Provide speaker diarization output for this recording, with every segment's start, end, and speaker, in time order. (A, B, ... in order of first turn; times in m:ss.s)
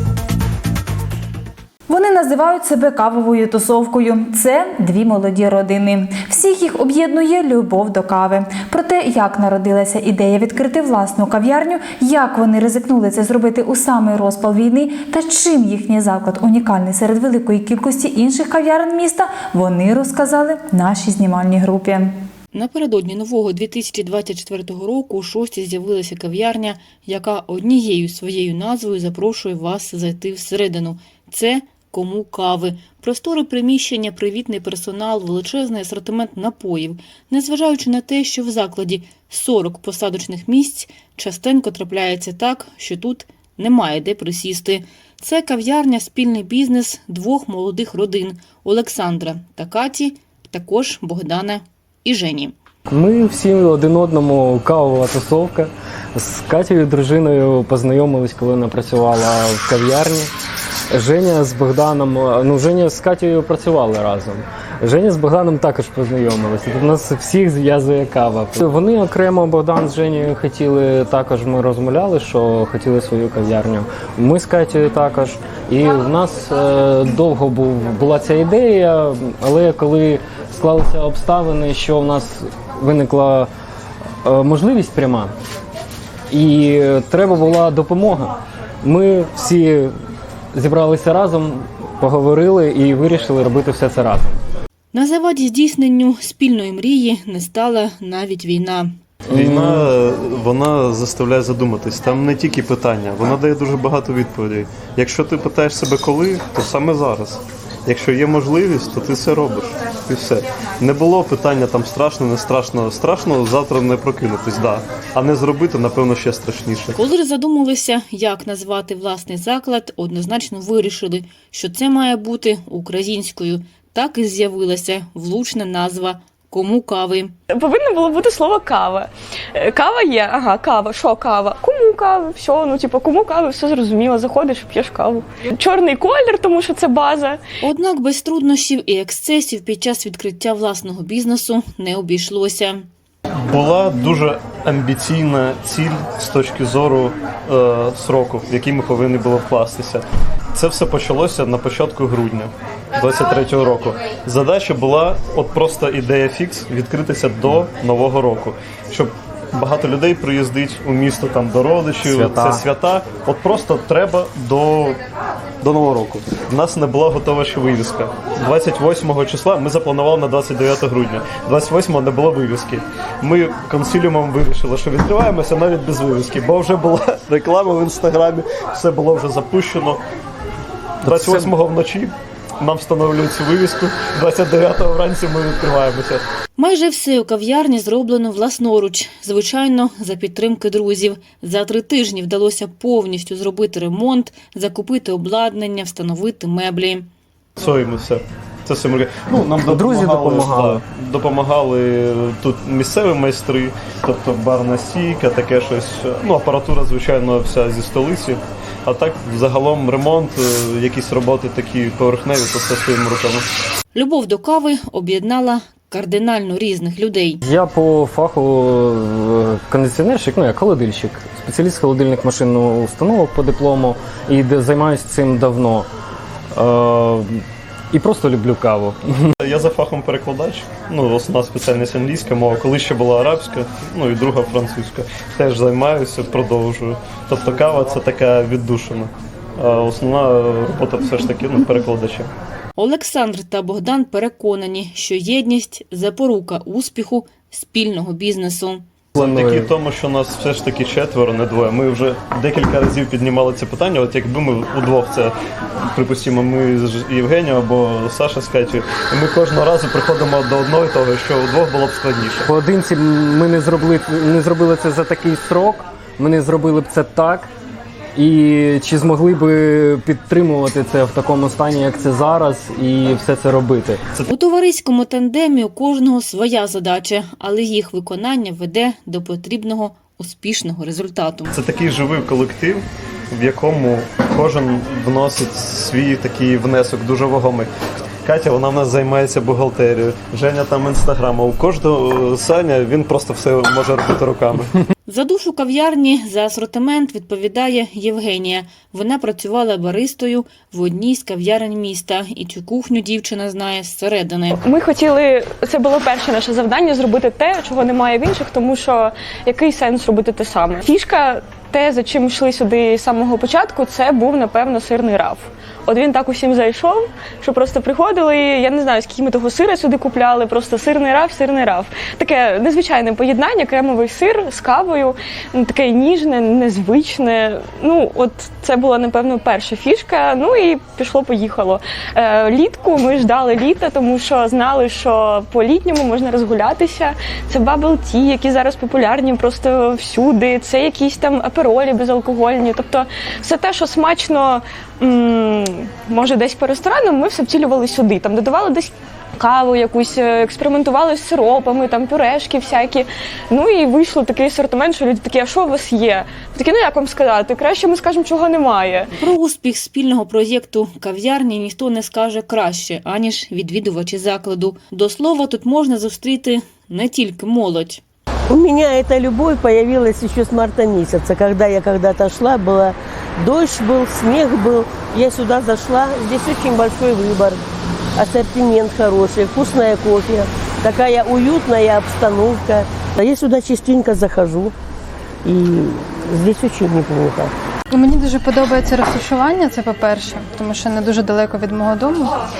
0:01.9-0:22.1 A
0:22.5-0:52.5 B
0:52.9-1:00.3 C
1:00.9-1:23.5 C
1:24.2-1:25.3 C
1:26.3-1:29.9 C
1:30.5-1:34.4 C
1:34.9-1:38.9 B
1:39.3-1:57.0 D
1:39.3-1:39.9 C
1:56.9-2:07.3 B
2:07.5-2:17.5 E
2:17.6-2:22.9 B
2:23.5-2:45.0 D
2:42.0-2:42.6 C
2:45.6-3:00.0 D
3:01.0-3:06.2 D
3:01.1-3:01.4 C
3:06.6-3:17.1 B
3:17.6-3:33.5 D
3:19.6-3:20.8 C
3:33.9-3:37.4 B
3:37.4-3:45.9 C
3:46.5-3:49.3 C
3:49.4-4:02.3 D
4:02.8-4:08.8 B
4:09.2-4:22.5 D
4:09.2-4:09.7 C
4:22.5-4:27.5 C
4:28.2-4:34.0 C
4:34.2-4:41.5 B
4:41.5-4:54.8 D
4:55.1-5:04.6 B
5:04.6-5:59.1 E
5:59.2-6:08.0 B
6:08.5-6:17.6 F
6:18.2-6:24.7 F
6:25.4-6:27.5 F
6:27.9-6:32.3 G